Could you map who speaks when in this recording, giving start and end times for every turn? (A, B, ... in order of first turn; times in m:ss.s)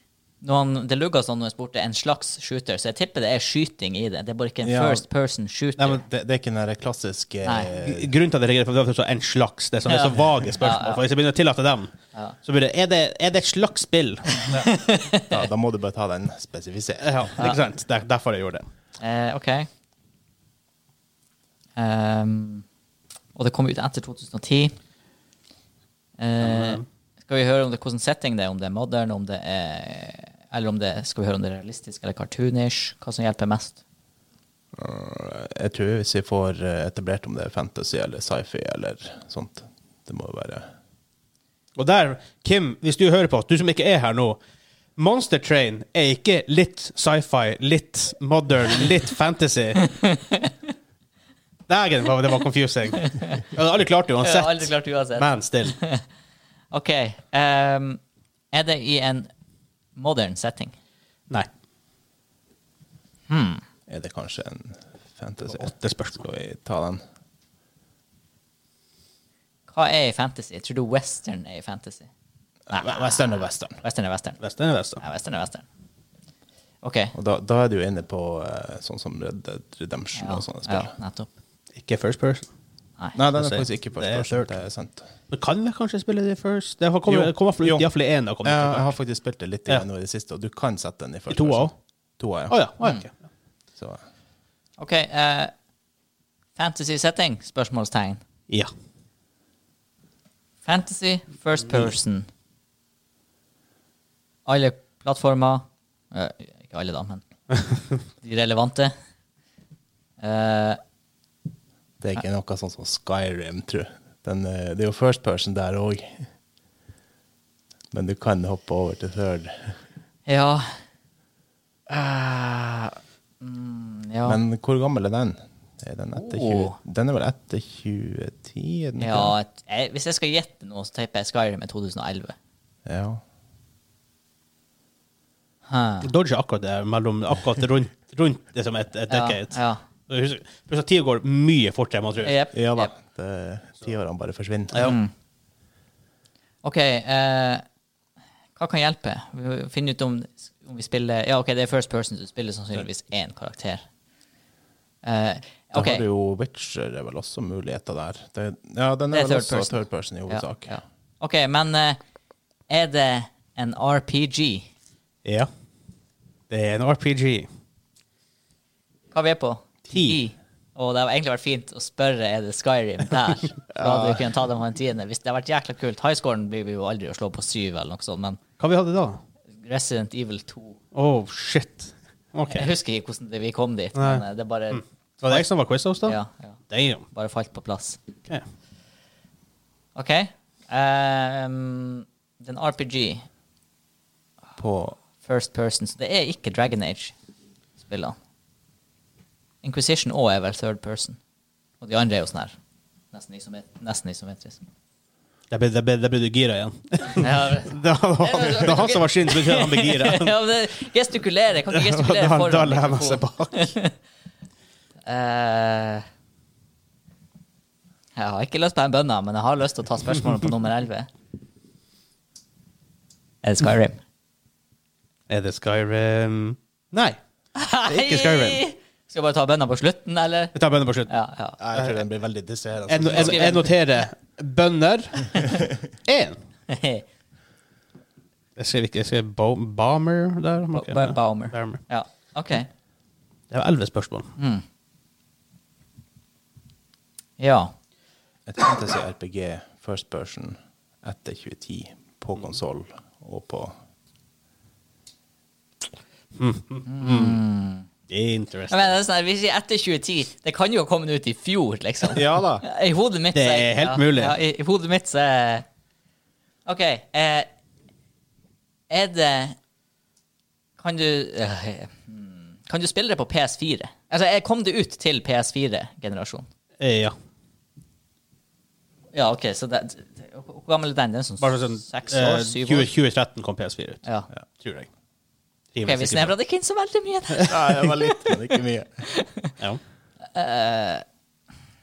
0:00.4-0:06.0 A
0:04.6-0:05.0 B
0:06.0-0:08.1 B
0:07.4-0:07.7 A
0:07.8-0:14.7 C
0:09.8-0:11.0 A
0:14.5-0:15.4 A
0:15.3-0:17.3 B
0:17.0-0:18.7 C
0:19.0-0:19.7 A
0:21.8-0:22.6 A
0:23.4-0:24.7 A
0:26.2-0:33.8 A
0:26.4-0:26.8 C
0:34.7-0:40.7 B
0:41.8-0:44.4 C
0:45.0-0:49.9 C
0:49.8-0:50.5 A
0:51.7-0:55.8 C
0:53.0-0:53.4 A
0:54.2-0:56.0 A
0:56.7-0:58.0 A
0:58.5-0:59.3 A
1:00.0-1:00.7 A
1:03.3-1:03.6 A
1:03.9-1:07.0 B
1:05.4-1:06.2 C
1:09.7-1:12.1 A
1:12.7-1:13.8 B
1:12.7-1:14.4 A
1:14.4-1:15.0 C
1:15.0-1:15.6 A
1:16.8-1:17.1 A
1:17.1-1:20.9 B
1:20.2-1:21.3 A
1:21.8-1:22.5 C
1:23.1-1:25.0 B
1:23.3-1:24.5 C
1:25.3-1:28.9 C
1:27.0-1:27.9 B
1:28.4-1:32.5 B
1:31.3-1:31.7 C
1:32.5-1:33.1 C
1:33.8-1:34.0 B
1:34.8-1:35.5 A
1:36.6-1:38.2 A
1:40.6-1:42.3 A
1:44.4-1:47.2 A
1:48.2-1:48.9 A
1:50.2-1:50.8 A
1:52.0-1:56.3 B
1:57.9-1:59.8 B
2:00.2-2:00.7 A
2:01.9-2:04.4 A
2:04.2-2:09.3 B
2:06.1-2:06.8 A
2:09.0-2:12.4 A
2:12.8-2:13.2 B
2:15.7-2:16.1 A
2:16.0-2:22.4 C
2:19.1-2:19.8 A
2:22.2-2:22.9 A
2:22.5-2:24.9 B
2:24.8-2:25.1 A
2:26.6-2:27.6 A
2:28.6-2:33.8 A
2:35.0-2:36.0 A
2:35.7-2:40.8 B
2:39.1-2:42.0 A
2:42.7-2:44.7 A
2:45.2-2:45.5 C
2:46.5-2:47.5 C
2:49.1-2:58.4 A
2:49.9-2:50.2 C
2:53.7-2:54.2 B
2:58.6-2:59.2 C
2:59.6-3:00.8 A
3:00.9-3:02.7 C
3:02.5-3:05.4 A
3:04.0-3:06.2 C
3:06.0-3:06.6 A
3:06.7-3:07.0 C
3:07.1-3:08.0 A
3:09.9-3:13.2 A
3:14.6-3:15.0 B
3:15.2-3:17.1 A
3:17.8-3:18.2 A
3:19.6-3:21.2 A
3:21.8-3:22.5 A
3:23.1-3:24.6 A
3:25.5-3:30.3 C
3:27.2-3:33.9 A
3:31.7-3:33.7 C
3:35.0-3:36.0 A
3:38.2-3:41.1 A
3:43.4-3:44.0 A
3:45.3-3:47.2 C
3:47.6-3:50.5 A
3:47.8-3:48.6 C
3:50.5-3:51.1 C
3:51.1-3:51.6 A
3:51.6-3:53.5 B
3:52.9-3:55.4 C
3:53.0-3:53.7 A
3:56.0-3:56.4 C
3:56.7-3:57.0 A
3:58.6-4:01.8 C
4:00.7-4:02.7 A
4:03.5-4:04.3 C
4:04.4-4:04.6 A
4:07.4-4:07.7 A
4:08.4-4:13.8 B
4:16.4-4:17.4 C
4:16.9-4:17.9 A
4:18.1-4:19.0 C
4:18.7-4:25.6 A
4:22.1-4:22.6 B
4:23.3-4:24.4 C
4:26.6-4:27.5 A
4:28.9-4:29.6 A
4:30.8-4:36.5 A
4:36.8-4:37.1 C
4:39.1-4:42.9 A
4:41.4-4:44.0 C
4:44.6-4:44.9 C
4:45.7-4:46.3 C
4:45.8-4:49.5 A
4:47.4-4:49.0 B
4:50.3-4:51.0 A